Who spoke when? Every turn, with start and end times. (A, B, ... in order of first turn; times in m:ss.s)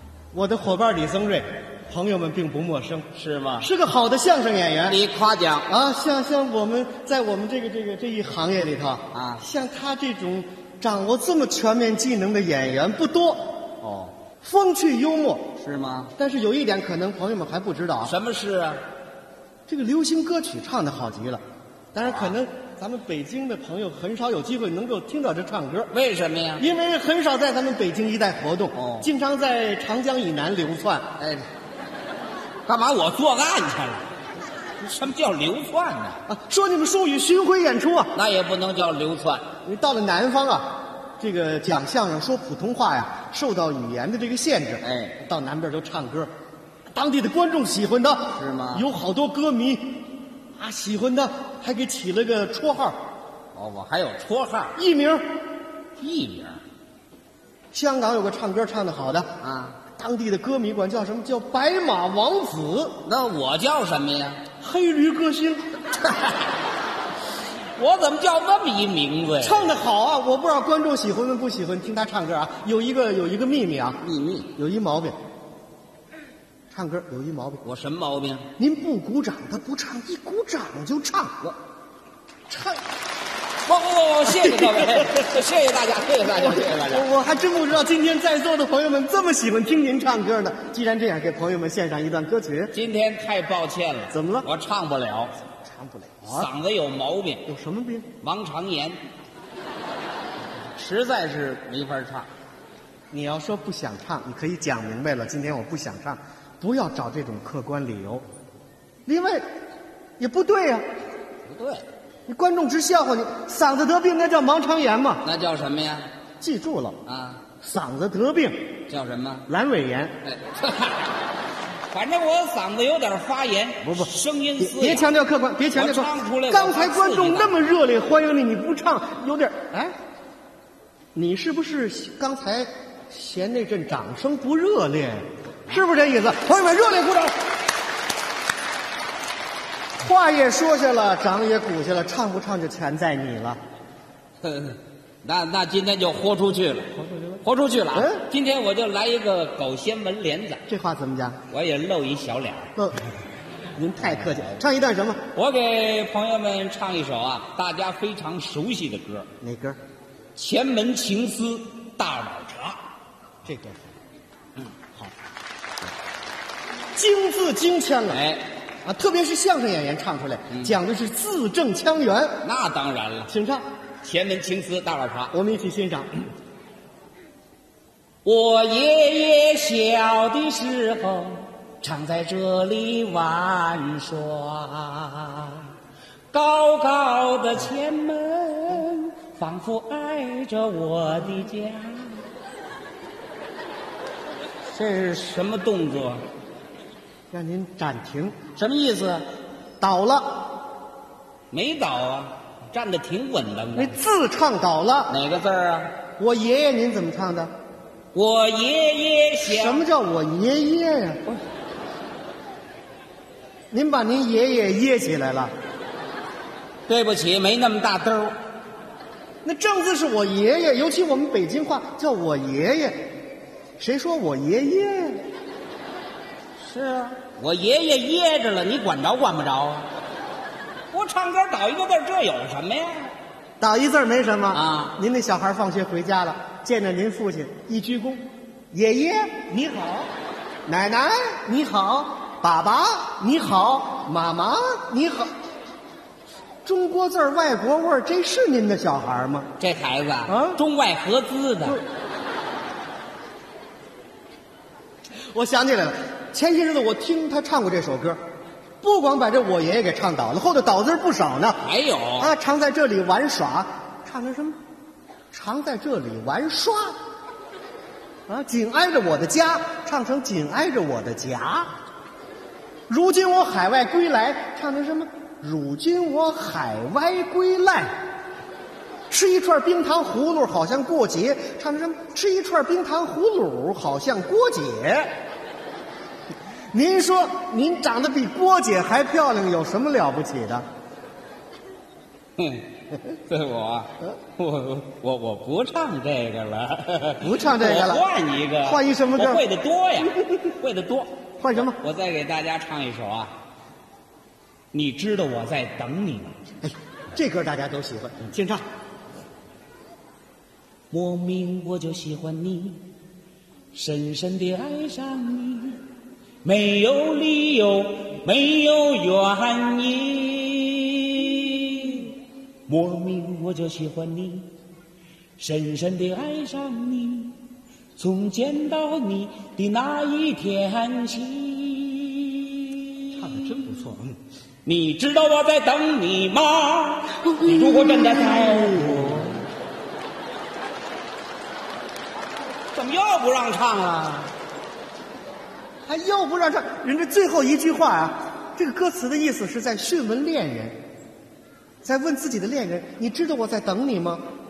0:00.3-0:03.1 A
0:03.2-0:03.7 B
0:03.6-0:05.0 A
0:04.9-0:05.7 B
0:05.7-0:13.4 A
0:09.1-0:09.4 B
0:13.8-0:14.1 B
0:14.4-0:15.4 A
0:15.6-0:16.1 B
0:16.2-0:18.1 A
0:18.0-0:18.8 B
0:19.7-0:21.4 A
0:21.9-0:25.9 A
0:22.0-0:22.4 B
0:25.9-0:26.7 B
0:26.6-0:31.1 A
0:28.7-0:29.1 B
0:31.2-0:31.4 B
0:32.7-0:34.1 B
0:34.8-0:36.2 B
0:36.3-0:38.1 A
0:38.1-0:39.4 B
0:39.6-0:46.3 A
0:44.8-0:45.2 B
0:46.9-0:50.0 A
0:48.3-0:48.8 B
0:50.6-0:53.0 A
0:53.5-0:54.8 B
0:54.7-0:55.2 A
0:56.0-0:56.6 B
0:57.7-0:59.3 A
0:59.4-0:59.8 B
1:00.0-1:02.9 A
1:03.0-1:04.4 B
1:04.6-1:05.7 A
1:06.0-1:06.4 B
1:07.8-1:09.8 B
1:09.4-1:14.0 A
1:14.0-1:14.5 B
1:14.6-1:15.2 A
1:16.7-1:17.6 A
1:17.6-1:18.5 B
1:18.6-1:21.4 A
1:22.5-1:22.8 A
1:23.7-1:27.1 B
1:24.3-1:25.1 A
1:26.2-1:32.7 A
1:32.7-1:35.3 B
1:34.1-1:34.5 A
1:35.7-1:36.5 A
1:36.2-1:37.5 B
1:37.5-1:38.1 A
1:38.2-1:39.0 B
1:40.8-1:42.3 B
1:43.1-1:48.2 A
1:49.1-1:49.4 A
1:50.2-1:50.8 A
1:51.5-1:51.8 B
1:52.3-1:55.2 A
1:55.2-1:56.1 B
1:56.4-1:57.0 A
1:57.0-1:57.4 B
1:57.6-1:58.6 A
1:58.9-1:59.5 B
1:59.5-2:00.1 A
2:00.2-2:01.1 B
2:01.9-2:05.1 B
2:03.8-2:09.9 A
2:05.7-2:07.7 B
2:11.2-2:17.3 A
2:20.0-2:23.6 A
2:24.4-2:26.9 B
2:27.0-2:27.4 A
2:27.4-2:30.6 B
2:27.9-2:28.2 A
2:30.7-2:31.4 A
2:31.5-2:32.7 B
2:33.8-2:35.2 A
2:34.0-2:34.6 B
2:35.3-2:39.3 B
2:39.4-2:39.8 A
2:40.4-2:42.8 B
2:43.4-2:43.8 A
2:46.9-2:48.2 A
2:48.1-2:48.4 B
2:48.8-2:52.3 A
2:50.5-2:50.8 B
2:52.4-2:53.3 B
2:53.3-2:53.6 A
2:54.0-2:55.3 B
2:55.3-2:56.2 A
2:58.2-3:05.7 B
3:06.3-3:12.2 B
3:14.7-3:16.2 B
3:17.3-3:18.3 A
3:18.6-3:19.2 B
3:19.8-3:20.4 A
3:21.5-3:24.0 B
3:23.8-3:25.1 A
3:25.1-3:25.9 B
3:26.2-3:27.5 A
3:28.1-3:29.8 B
3:29.5-3:31.2 A
3:33.7-3:35.5 A
3:36.9-3:38.3 B
3:39.4-3:43.1 A
3:43.8-3:45.2 A
3:46.6-3:49.9 B
3:50.9-3:53.1 B
3:53.6-4:00.1 A
3:54.5-3:55.0 B
4:00.7-4:05.3 A
4:06.6-4:09.5 A
4:09.6-4:11.8 B
4:10.3-4:10.6 A
4:15.3-4:18.2 A
4:18.8-4:21.6 A
4:21.6-4:22.3 B
4:22.2-4:24.6 A
4:25.3-4:26.9 A
4:28.3-4:31.7 A
4:32.9-4:37.9 A
4:39.1-4:45.1 A
4:46.7-4:50.6 A
4:52.4-5:03.3 B
4:57.2-4:58.0 A
4:58.6-4:59.4 A
5:01.4-5:01.8 A
5:04.7-5:06.4 B
5:06.6-5:08.6 A
5:10.9-5:12.8 B
5:13.7-5:15.8 B
5:16.4-5:22.1 B
5:22.7-5:24.5 B
5:25.4-5:27.4 B
5:28.0-5:33.2 B
5:33.2-5:34.2 A
5:34.6-5:39.4 B
5:37.3-5:39.2 A
5:42.7-5:44.3 B
5:45.9-5:50.8 A
5:51.8-5:54.2 A